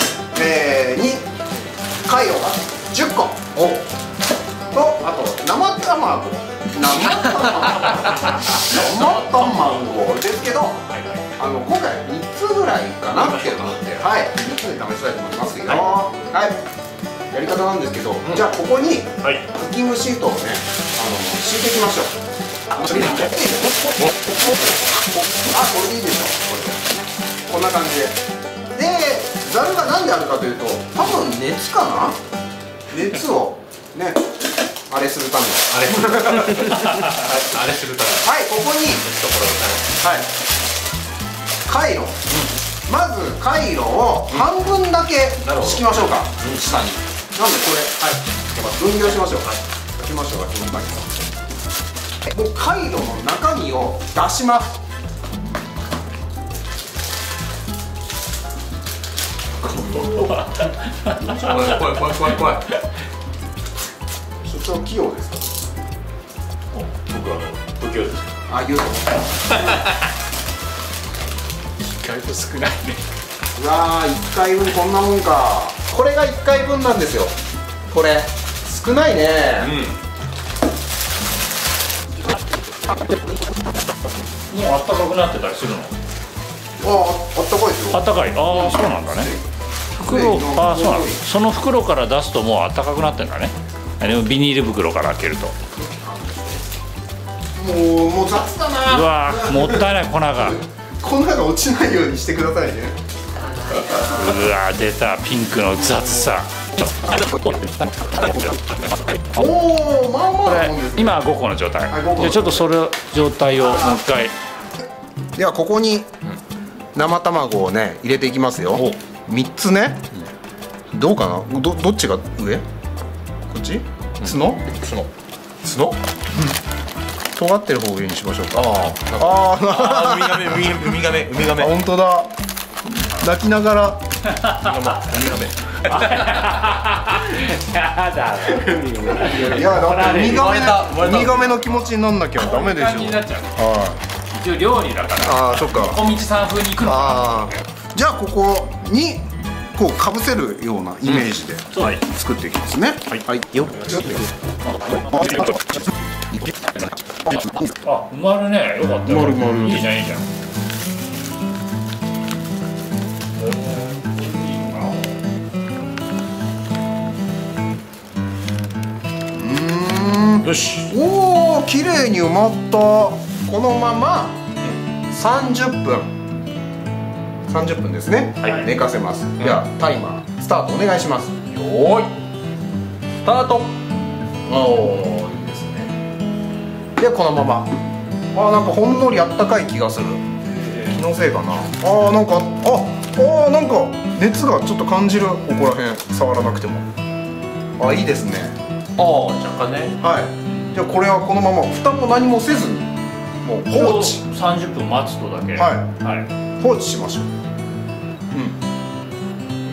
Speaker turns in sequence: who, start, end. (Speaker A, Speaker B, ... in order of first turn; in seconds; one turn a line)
Speaker A: 0.3-1.3
Speaker A: 2.0-3.9
Speaker A: 4.7-10.8
Speaker B: 8.5-9.8
Speaker B: 10.9-11.3
Speaker A: 11.4-16.6
Speaker B: 13.1-13.9
Speaker A: 17.3-22.2
Speaker A: 22.7-26.9
Speaker A: 27.5-28.2
Speaker A: 28.8-32.2
Speaker A: 32.9-34.2
Speaker A: 34.9-36.7
Speaker B: 35.7-38.3
Speaker A: 38.2-39.1
Speaker B: 39.0-40.0
Speaker A: 40.0-40.3
Speaker A: 41.7-42.2
Speaker A: 42.9-51.1
Speaker B: 45.4-46.6
Speaker B: 48.8-49.6
Speaker A: 52.3-54.7
Speaker B: 59.6-60.5
Speaker C: 61.0-61.3
Speaker B: 61.2-62.8
Speaker A: 64.4-65.5
Speaker B: 66.7-68.3
Speaker A: 68.5-69.8
Speaker B: 69.5-69.9
Speaker C: 71.8-73.0
Speaker A: 73.5-77.3
Speaker A: 77.9-79.7
Speaker B: 79.6-80.0
Speaker C: 84.5-85.9
Speaker A: 86.8-89.4
Speaker C: 87.9-89.3
Speaker C: 90.0-95.5
Speaker A: 90.1-91.2
Speaker A: 95.8-96.6
Speaker A: 97.6-99.9
Speaker C: 98.9-100.6
Speaker A: 100.4-103.0
Speaker C: 104.1-108.6
Speaker A: 109.3-111.2
Speaker C: 110.5-114.3
Speaker A: 111.9-112.7
Speaker A: 115.4-116.1
Speaker A: 117.0-120.1
Speaker A: 120.9-122.7
Speaker A: 123.5-124.7
Speaker B: 124.2-125.1
Speaker B: 125.7-126.0
Speaker A: 127.4-130.6
Speaker B: 128.6-131.8
Speaker A: 131.5-132.3
Speaker A: 133.1-134.0
Speaker C: 134.3-134.6
Speaker B: 134.6-136.4
Speaker C: 135.9-140.8
Speaker B: 138.6-139.2
Speaker A: 139.2-144.0
Speaker B: 140.2-141.7
Speaker C: 142.4-143.6
Speaker C: 144.3-147.5
Speaker A: 145.2-146.0
Speaker A: 146.8-154.3
Speaker C: 154.7-155.6
Speaker A: 156.3-157.7
Speaker C: 157.8-160.3
Speaker A: 159.1-159.8
Speaker C: 163.3-165.2
Speaker A: 169.3-174.4
Speaker B: 170.4-170.9
Speaker A: 175.1-176.1
Speaker A: 177.5-181.5
Speaker B: 178.4-178.7
Speaker B: 181.5-182.1
Speaker B: 183.2-183.7
Speaker A: 184.5-185.9
Speaker A: 187.0-187.7
Speaker A: 188.3-190.3
Speaker B: 190.6-191.0
Speaker A: 190.8-196.8
Speaker A: 197.8-198.6
Speaker B: 199.0-199.9
Speaker A: 200.0-202.9
Speaker A: 203.4-204.2
Speaker C: 203.7-206.3
Speaker A: 205.6-205.9
Speaker A: 206.6-207.3